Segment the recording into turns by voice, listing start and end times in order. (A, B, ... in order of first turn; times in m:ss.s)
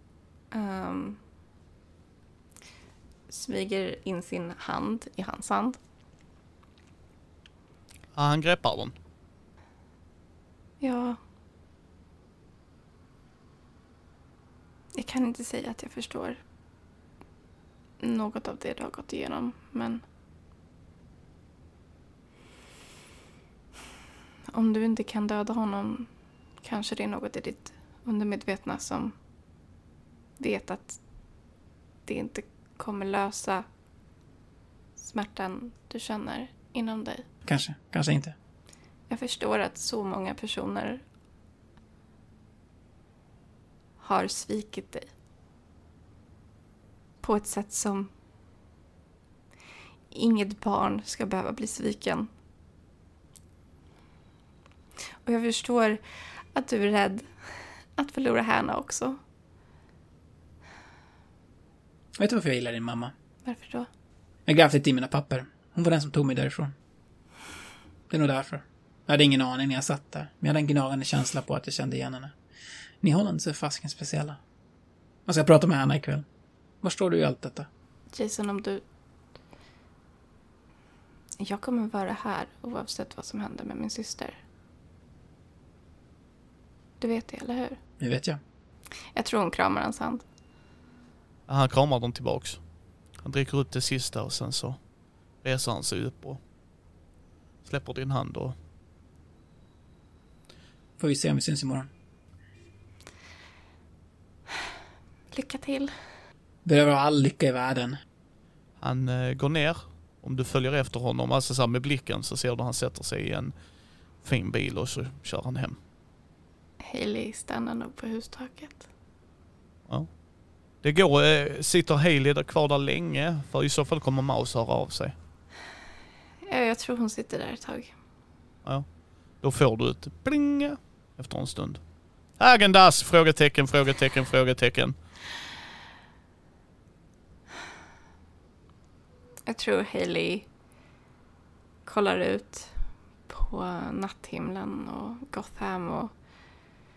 0:00.5-0:01.2 A
0:03.3-0:05.8 A
0:08.1-0:08.9 B
0:10.8-0:11.2 A
0:14.9-0:16.4 A
0:18.0-0:20.0 A
0:24.5-0:26.1 A
0:26.6-0:29.1 A
0:30.4-0:31.0 A
0:32.0-0:33.6 A
0:35.0-0:37.2 A
0:37.4-0:38.3 C
0:39.1-0:41.0 A
0:44.0-0:45.1 A
0:47.2-0:48.1 A
0:50.1-0:52.3 A
0:55.2-0:59.2 A
1:02.2-1:03.1 C
1:03.4-1:03.9 A
1:04.4-1:06.7 C
1:08.1-1:12.4 C
1:13.0-1:14.4 C
1:15.2-1:16.2 C
1:16.8-1:17.7 C
1:18.1-1:18.8 A
1:21.4-1:24.4 A
1:27.0-1:27.8 A
1:28.0-1:28.4 C
1:29.1-1:30.2 A
1:31.5-1:32.6 B
1:33.2-1:34.8 B
1:35.4-1:36.4 B
1:37.6-1:38.5 B
1:41.0-1:41.9 C
1:45.3-1:45.9 A
1:46.6-1:48.0 C
1:48.8-1:53.5 B
1:54.2-1:55.8 B
1:56.8-1:58.8 A
1:59.9-2:00.2 B
2:00.8-2:05.1 B
2:06.4-2:07.9 A
2:08.6-2:15.0 B
2:19.4-2:20.5 A
2:21.8-2:26.1 A